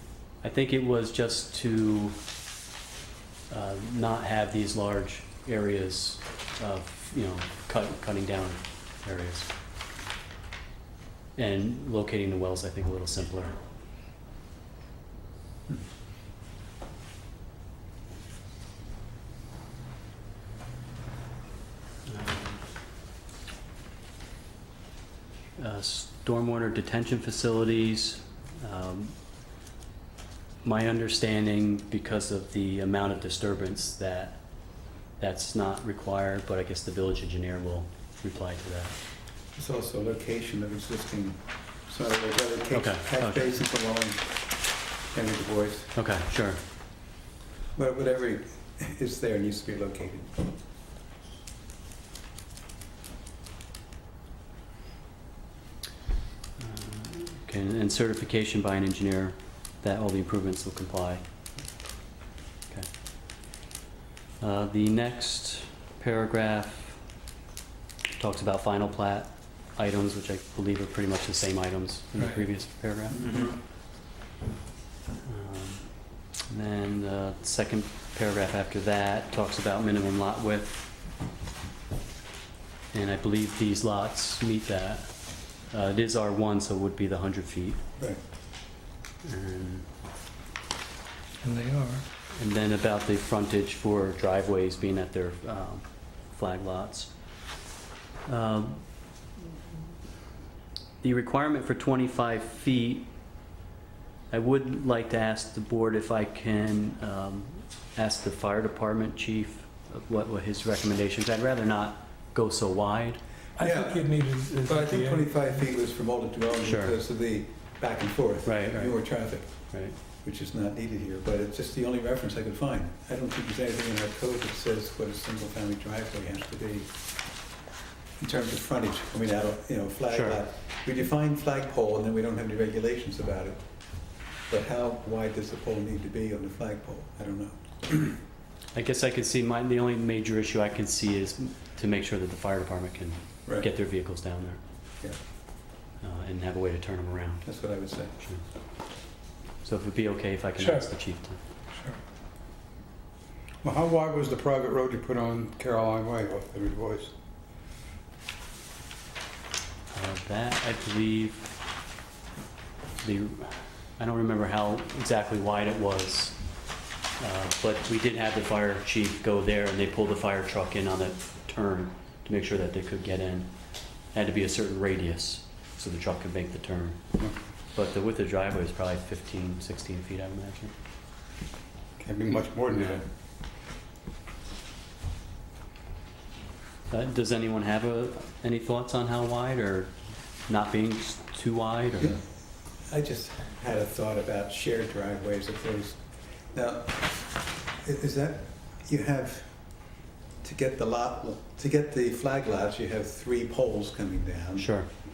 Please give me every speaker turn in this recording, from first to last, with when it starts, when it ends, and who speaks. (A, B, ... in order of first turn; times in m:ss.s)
0:00.4-0:02.2 A
0:03.5-0:09.5 A
0:11.4-0:13.6 A
0:22.1-0:22.6 A
0:25.6-0:29.1 A
0:30.6-0:34.4 A
0:35.2-0:39.0 A
0:39.5-0:44.3 B
0:42.7-0:43.5 A
0:45.1-0:45.9 B
0:45.9-0:46.6 A
0:47.7-0:50.3 B
0:56.6-1:01.2 A
1:04.4-1:07.0 A
1:08.2-1:13.2 A
1:15.2-1:15.9 A
1:16.5-1:20.8 A
1:22.9-1:25.1 A
1:25.7-1:27.8 A
1:29.2-1:29.9 A
1:31.4-1:32.0 C
1:32.4-1:37.1 A
1:38.2-1:38.8 A
1:41.0-1:43.1 A
1:44.3-1:53.2 A
1:53.6-1:55.4 C
1:53.6-1:59.7 B
1:56.6-1:56.9 A
1:58.4-1:59.0 A
1:59.7-1:59.9 A
2:00.2-2:06.9 B
2:08.2-2:13.6 B
2:10.1-2:10.4 A
2:14.5-2:18.2 B
2:18.7-2:24.6 A
2:26.0-2:27.5 A
2:27.4-2:28.1 B
2:29.6-2:31.4 A
2:30.6-2:30.9 C
2:31.7-2:32.0 C
2:33.6-2:37.1 D
2:39.9-2:41.6 A
2:43.0-2:46.4 A
2:47.2-2:53.5 A
2:54.1-2:57.0 A
2:57.7-3:00.7 A
3:02.0-3:03.0 D
3:06.9-3:09.9 A
3:10.5-3:12.2 A
3:12.0-3:12.2 B
3:12.8-3:17.2 B
3:17.8-3:19.8 B
3:20.4-3:24.7 B
3:24.6-3:24.9 A